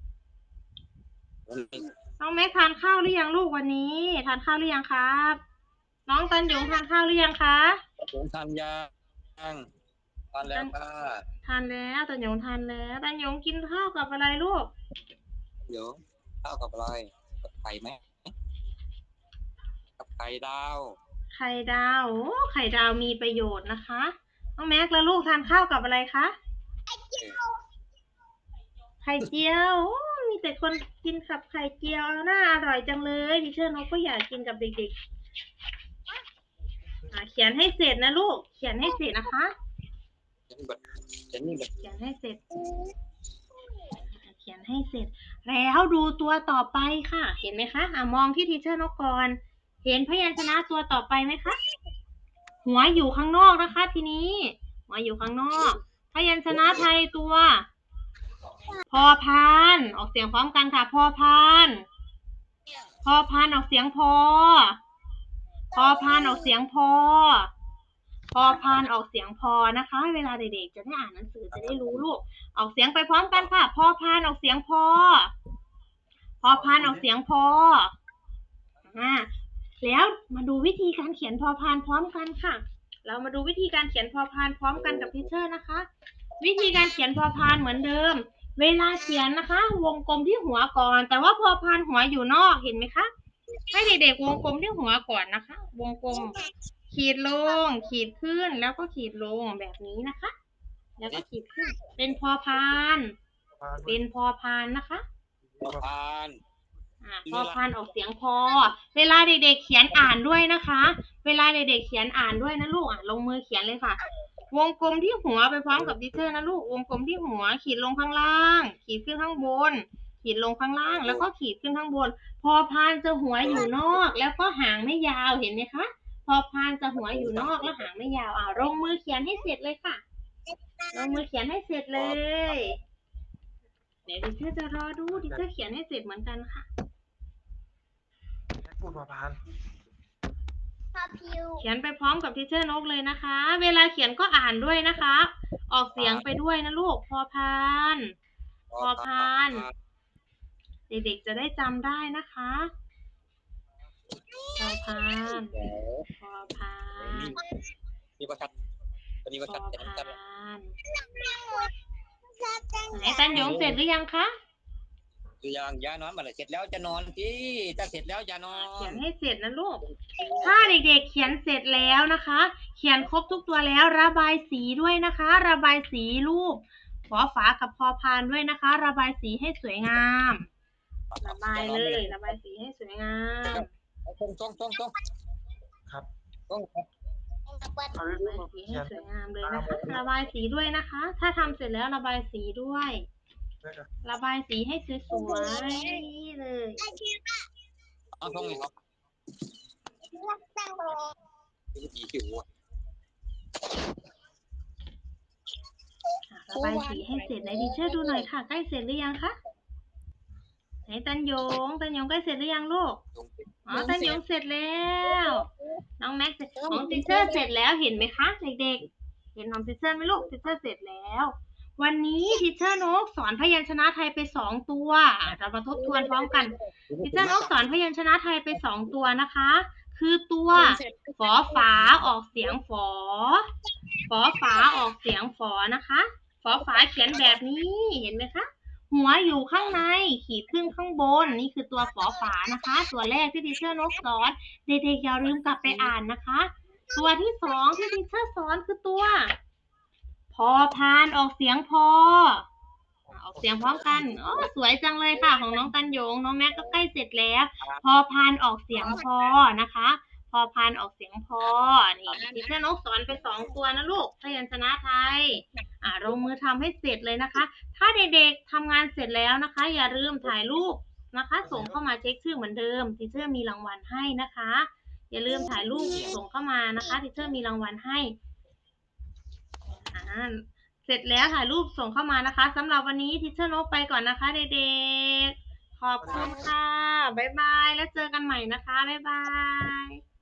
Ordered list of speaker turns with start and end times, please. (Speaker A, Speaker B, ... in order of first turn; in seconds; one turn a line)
Speaker A: 1.5-1.9
Speaker B: 2.2-5.4
Speaker B: 6.1-7.8
Speaker C: 6.3-6.8
Speaker A: 8.0-9.7
Speaker A: 10.3-11.2
Speaker B: 10.4-10.7
Speaker B: 11.4-14.7
Speaker A: 15.7-18.3
Speaker A: 20.0-21.0
Speaker B: 21.3-26.4
Speaker C: 26.9-27.6
Speaker B: 29.0-35.0
Speaker B: 37.1-39.5
Speaker A: 40.5-41.7
Speaker B: 41.8-42.4
Speaker C: 42.5-42.9
Speaker C: 43.6-44.0
Speaker B: 44.1-51.5
Speaker B: 52.6-57.6
Speaker A: 56.5-56.9
Speaker C: 58.7-59.1
Speaker B: 58.9-61.9
Speaker B: 63.0-64.8
Speaker C: 65.7-66.5
Speaker B: 65.7-67.5
Speaker B: 68.3-75.3
Speaker A: 71.5-72.0
Speaker A: 73.2-73.5
Speaker B: 76.4-77.9
Speaker D: 76.5-77.0
Speaker B: 78.9-79.3
Speaker B: 79.8-85.9
Speaker A: 84.8-85.1
Speaker B: 86.4-93.1
Speaker C: 86.6-86.9
Speaker B: 93.7-96.4
Speaker C: 96.1-96.5
Speaker B: 96.9-100.3
Speaker C: 97.5-97.9
Speaker B: 101.0-103.1
Speaker C: 101.6-102.1
Speaker D: 103.5-104.0
Speaker B: 103.9-105.0
Speaker D: 105.4-105.9
Speaker A: 105.6-106.4
Speaker B: 107.0-114.0
Speaker A: 107.2-107.6
Speaker B: 114.5-130.0
Speaker A: 120.9-121.2
Speaker A: 123.4-124.0
Speaker A: 126.9-127.9
Speaker C: 130.5-131.2
Speaker B: 130.9-132.8
Speaker B: 134.1-136.7
Speaker D: 135.1-135.4
Speaker D: 138.5-139.4
Speaker C: 140.9-141.6
Speaker B: 141.6-148.1
Speaker A: 146.0-146.3
Speaker A: 148.7-149.7
Speaker B: 148.8-149.7
Speaker B: 150.9-152.7
Speaker C: 154.2-155.2
Speaker B: 154.6-155.6
Speaker A: 155.5-156.1
Speaker B: 156.2-157.3
Speaker A: 157.0-157.4
Speaker A: 158.2-158.5
Speaker A: 159.2-160.1
Speaker B: 159.4-160.7
Speaker C: 160.9-161.7
Speaker C: 162.3-163.6
Speaker B: 162.9-164.3
Speaker A: 163.3-163.8
Speaker A: 165.4-169.0
Speaker B: 168.5-169.8
Speaker A: 169.9-170.5
Speaker C: 170.2-170.5
Speaker B: 170.4-180.5
Speaker A: 181.1-182.1
Speaker B: 181.2-183.7
Speaker A: 183.5-184.9
Speaker A: 186.5-186.9
Speaker C: 187.5-188.0
Speaker D: 187.9-189.8
Speaker B: 188.2-193.1
Speaker A: 189.7-190.0
Speaker D: 193.6-193.9
Speaker B: 194.0-196.8
Speaker C: 195.1-196.0
Speaker C: 196.8-197.4
Speaker A: 198.2-198.7
Speaker D: 198.2-198.6
Speaker C: 200.1-201.1
Speaker A: 201.7-202.5
Speaker B: 206.3-209.4
Speaker A: 206.5-207.5
Speaker C: 207.7-208.1
Speaker B: 210.9-213.0
Speaker A: 213.1-214.2
Speaker B: 213.7-215.4
Speaker B: 216.0-233.4
Speaker C: 216.7-217.4
Speaker A: 220.2-220.5
Speaker A: 225.3-227.5
Speaker A: 230.5-232.5
Speaker B: 234.1-249.3
Speaker C: 234.5-234.8
Speaker A: 236.5-237.3
Speaker A: 239.5-239.8
Speaker C: 241.8-242.8
Speaker A: 245.3-245.9
Speaker C: 246.9-247.9
Speaker B: 250.3-252.5
Speaker D: 253.1-254.5
Speaker B: 253.1-278.1
Speaker A: 253.9-254.4
Speaker C: 258.8-259.1
Speaker A: 258.8-259.1
Speaker A: 261.4-262.5
Speaker D: 271.4-271.8
Speaker C: 275.3-276.2
Speaker A: 275.6-276.2
Speaker C: 276.8-277.4
Speaker B: 279.9-290.0
Speaker D: 286.0-286.5
Speaker C: 286.1-286.4